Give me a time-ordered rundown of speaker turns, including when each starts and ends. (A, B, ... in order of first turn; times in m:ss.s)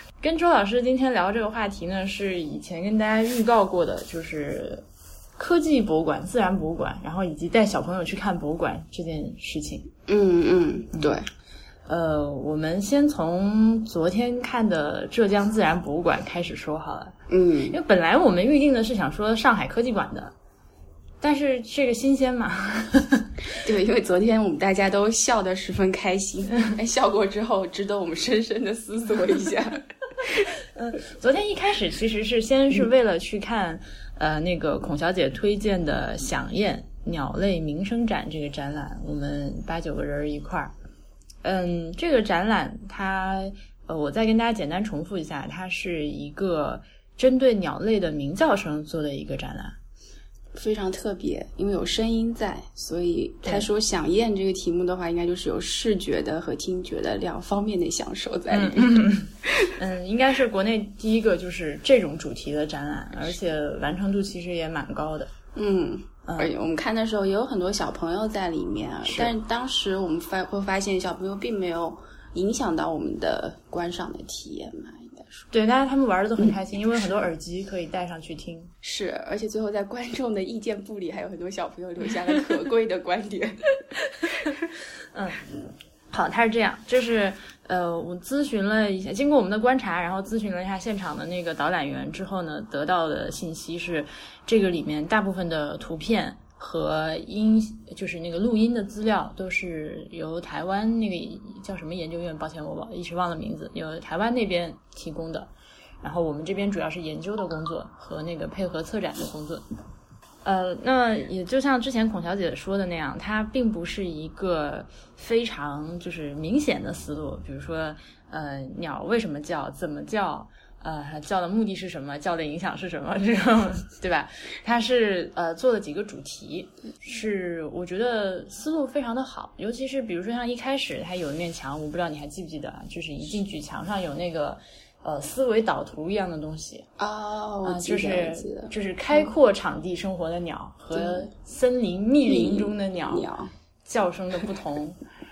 0:00.2-0:04.8 A
0:05.4-0:09.9 A
0:10.1-0:11.2 B
0:11.9-0:17.2 A
0:17.3-0:17.8 B
0:17.7-0:20.3 A
0:21.2-0:23.6 A
0:23.6-0:30.5 B
0:30.7-0:40.7 A
0:41.4-0:49.8 A
0:50.6-0:59.7 B
0:58.5-1:05.3 A
1:05.6-1:15.5 B
1:06.2-1:06.5 A
1:15.5-1:18.7 A
1:18.8-1:23.7 B
1:24.2-1:24.6 A
1:25.1-1:25.5 A
1:26.1-1:45.5 A
1:46.0-1:49.6 A
1:50.4-2:16.9 A
2:17.0-2:19.3 B
2:17.6-2:23.2 A
2:20.9-2:21.3 B
2:22.2-2:23.5 B
2:23.8-2:25.0 A